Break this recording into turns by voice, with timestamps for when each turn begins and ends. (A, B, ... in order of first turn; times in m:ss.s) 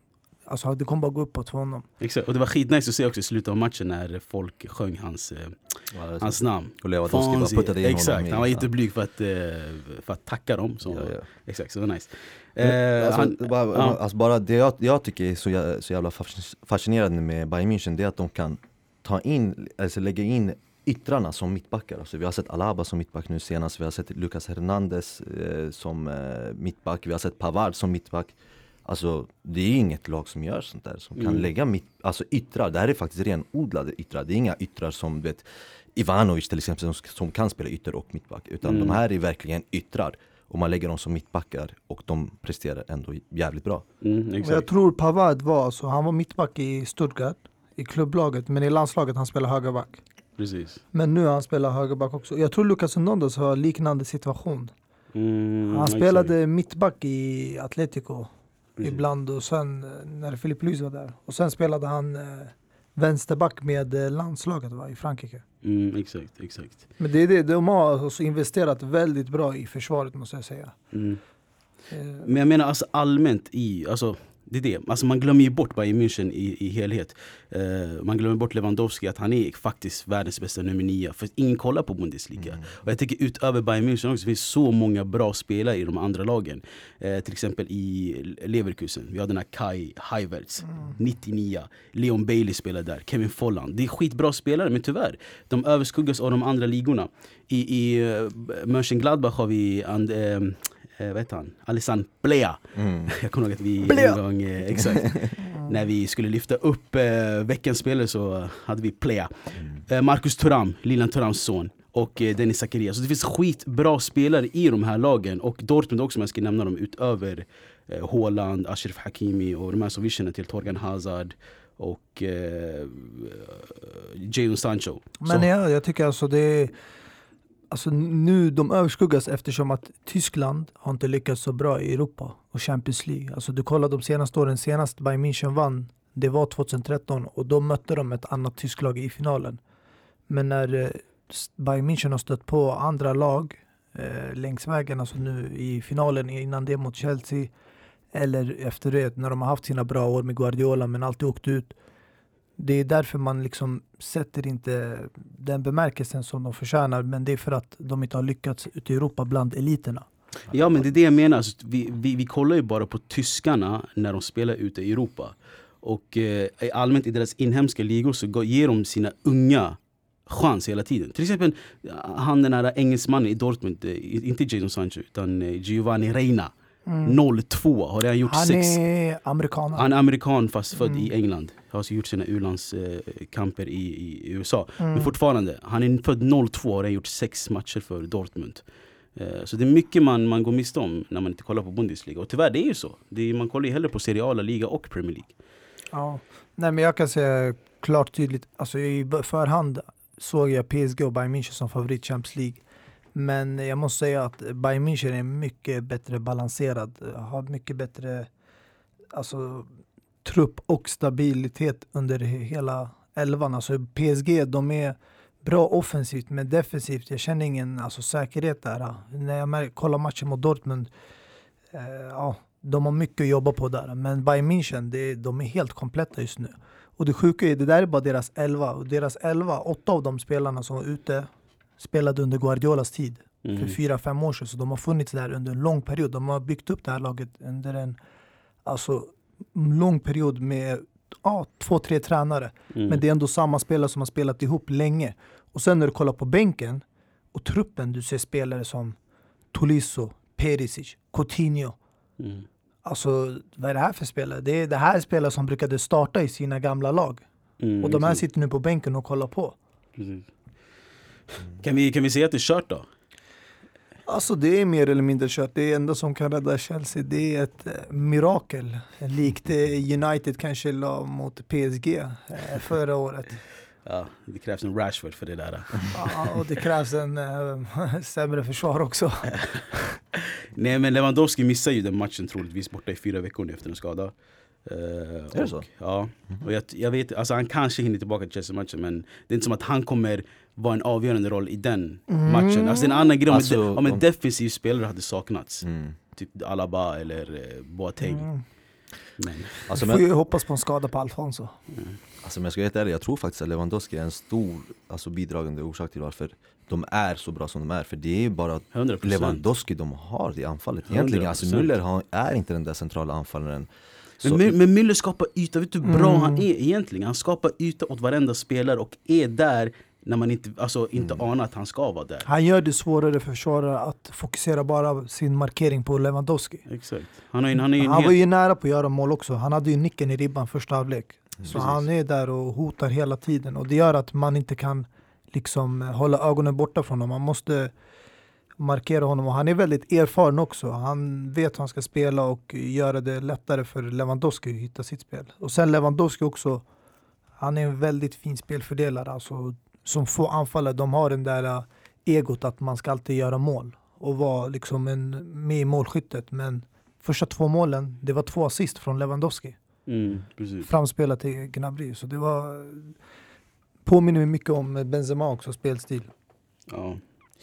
0:00.5-0:01.8 A
0:02.0-0:14.0 B
0:05.9-0:08.7 C
0:10.8-0:11.2 C
0:12.6-0:28.3 C
0:28.8-0:43.8 C
0:31.2-0:31.5 B
0:38.6-0:39.0 B
0:44.0-0:44.7 B
0:44.4-0:50.0 A
0:50.4-0:50.8 B
0:50.9-0:54.7 A
0:55.1-0:56.3 B
0:55.7-0:58.3 A
0:58.8-0:59.0 B
0:58.8-1:05.4 A
1:05.6-1:06.8 B
1:07.0-1:10.7 A
1:10.9-1:11.2 B
1:11.9-1:12.3 A
1:12.2-2:05.5 B
1:22.4-1:22.7 C
1:42.7-1:43.1 C
1:43.9-1:44.2 A
2:05.2-2:06.7 A
2:07.7-2:19.6 A
2:20.3-2:27.5 A
2:28.1-2:31.7 A
2:32.6-2:40.1 A
2:40.5-2:40.8 C
2:40.5-2:56.5 B
2:56.8-2:57.2 A
2:57.0-2:58.8 B
2:58.3-2:59.8 A
2:59.7-3:08.6 B
3:00.8-3:01.1 A
3:04.8-3:05.1 A
3:09.1-3:15.3 B
3:15.9-3:22.6 A
3:23.1-3:28.3 A
3:29.1-3:29.7 A
3:30.2-3:40.9 A
3:41.7-3:58.0 A
3:53.4-3:53.8 B
3:58.6-4:06.8 A
4:02.7-4:03.0 B
4:07.3-4:09.0 A
4:09.5-4:11.8 A
4:12.2-4:12.4 B
4:12.8-4:17.2 A
4:17.6-4:18.2 B
4:17.8-4:19.6 A
4:20.0-4:20.3 B
4:21.6-4:22.9 B
4:24.1-4:33.4 A
4:33.8-4:36.2 B
4:35.9-4:39.3 A
4:40.5-4:44.1 B
4:44.6-4:58.3 B
4:45.3-4:45.7 C
4:52.1-4:53.1 A
4:53.3-4:54.0 C
4:55.6-4:55.9 C
4:58.1-4:58.4 A
4:59.2-4:59.6 B
4:59.7-5:00.0 C
4:59.7-5:01.6 A
5:02.2-5:13.7 C
5:08.7-5:09.4 B
5:10.9-5:11.7 B
5:14.2-5:14.5 C
5:14.2-5:22.3 B
5:15.8-5:16.4 A
5:22.2-5:26.6 A
5:26.7-5:28.2 B
5:27.7-5:37.7 A
5:31.5-5:31.8 B
5:38.6-5:46.6 A
5:47.4-5:59.6 A
5:59.9-6:00.7 B
6:00.6-6:02.9 A
6:03.8-6:06.1 A
6:06.7-6:07.0 B